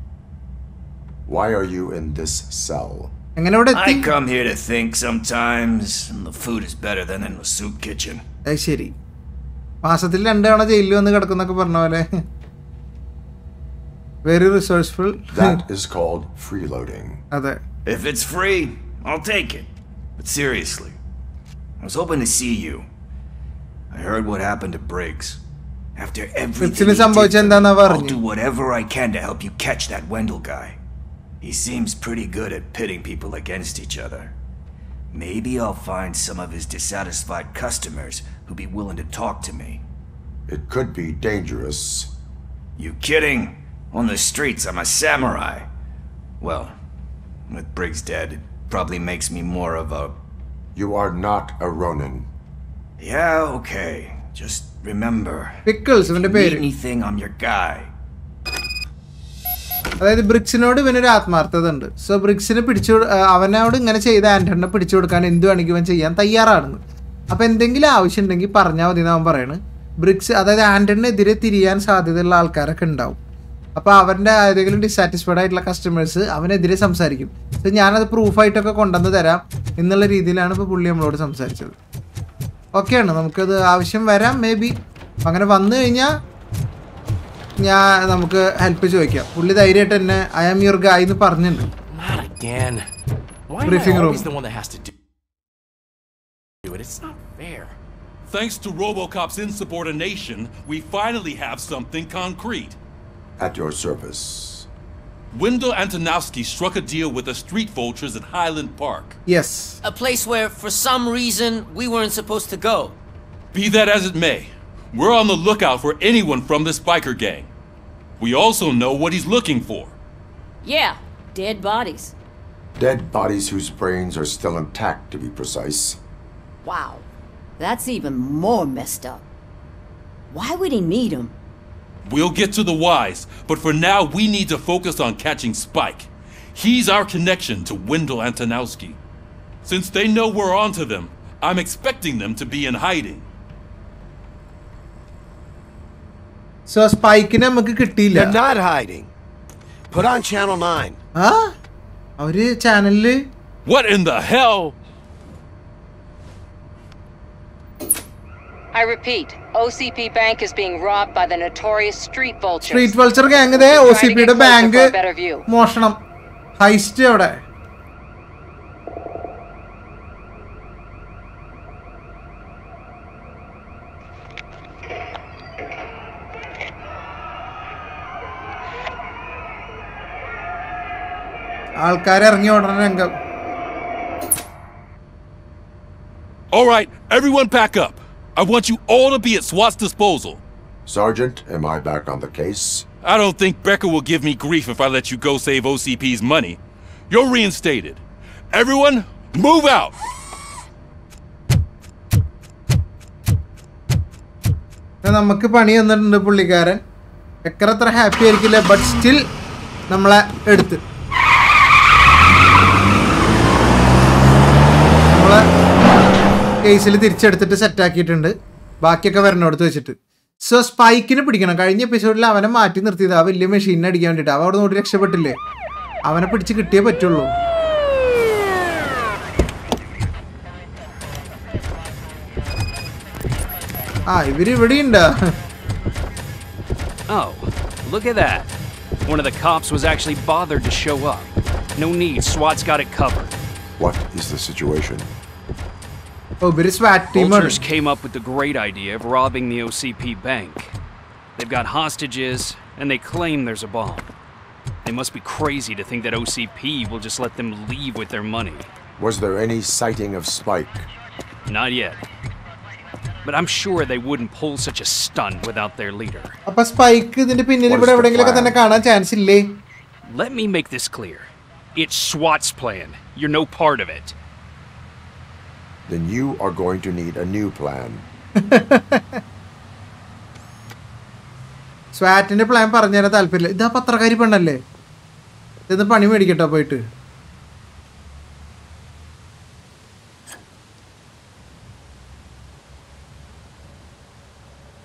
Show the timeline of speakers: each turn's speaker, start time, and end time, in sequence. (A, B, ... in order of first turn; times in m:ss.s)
0:01.3-0:03.1 A
0:03.4-0:04.1 B
0:03.7-0:08.2 C
0:08.5-0:08.9 B
0:09.8-0:12.1 B
0:14.2-0:15.4 B
0:15.3-0:17.2 A
0:17.3-0:17.6 B
0:17.9-0:21.0 C
0:21.8-0:22.9 C
0:23.9-0:25.4 C
0:26.0-0:30.8 C
0:26.6-0:28.2 B
0:31.4-0:34.4 C
0:35.1-0:39.8 C
0:40.5-0:42.1 A
0:42.8-0:45.7 C
0:46.4-0:46.7 C
0:47.5-0:50.2 C
0:50.8-0:52.3 A
0:53.0-0:57.9 C
0:55.7-0:56.6 B
1:00.0-1:13.2 B
1:13.8-1:21.8 B
1:22.7-1:26.1 B
1:27.6-1:31.7 B
1:33.6-1:34.3 B
1:38.3-1:42.8 D
1:43.4-1:44.7 A
1:45.3-1:49.2 D
1:49.3-1:49.8 B
1:49.8-1:53.0 E
1:53.5-1:57.5 D
1:58.2-2:00.0 D
2:00.6-2:02.1 F
2:02.8-2:06.0 A
2:06.6-2:07.0 F
2:07.6-2:09.2 F
2:10.3-2:11.3 F
2:12.0-2:19.0 D
2:19.6-2:23.3 D
2:26.7-2:28.4 B
2:28.1-2:29.1 G
2:29.9-2:31.0 G
2:31.2-2:31.5 B
2:32.2-2:33.2 B
2:33.7-2:34.8 D
2:38.7-2:43.0 H
2:42.6-2:44.9 B
2:43.6-2:45.5 H
2:45.5-2:46.0 B
2:46.6-2:47.4 B
3:01.8-3:03.2 B
3:06.5-3:10.4 D
3:10.9-3:12.9 A
3:13.0-3:16.6 D
3:17.1-3:18.0 D
3:18.5-3:20.0 D
3:25.0-3:26.8 B
3:27.4-3:29.2 B
3:29.9-3:30.8 B
3:35.1-3:35.4 B
3:36.6-3:45.4 B
3:46.0-3:47.3 B
3:54.1-3:55.3 B
3:57.1-3:58.5 I
3:59.0-4:03.4 I
4:03.8-4:05.1 A
4:06.4-4:07.6 B
4:07.1-4:10.8 I
4:11.4-4:14.1 I
4:14.8-4:18.7 I
4:19.0-4:20.9 A
4:21.5-4:22.0 I
4:23.2-4:26.4 I
4:26.5-4:29.6 B
4:27.7-4:28.6 A
4:30.1-4:34.2 I
4:35.9-4:38.1 A
4:38.4-4:39.2 B
4:42.0-4:44.6 B
4:45.7-4:46.8 B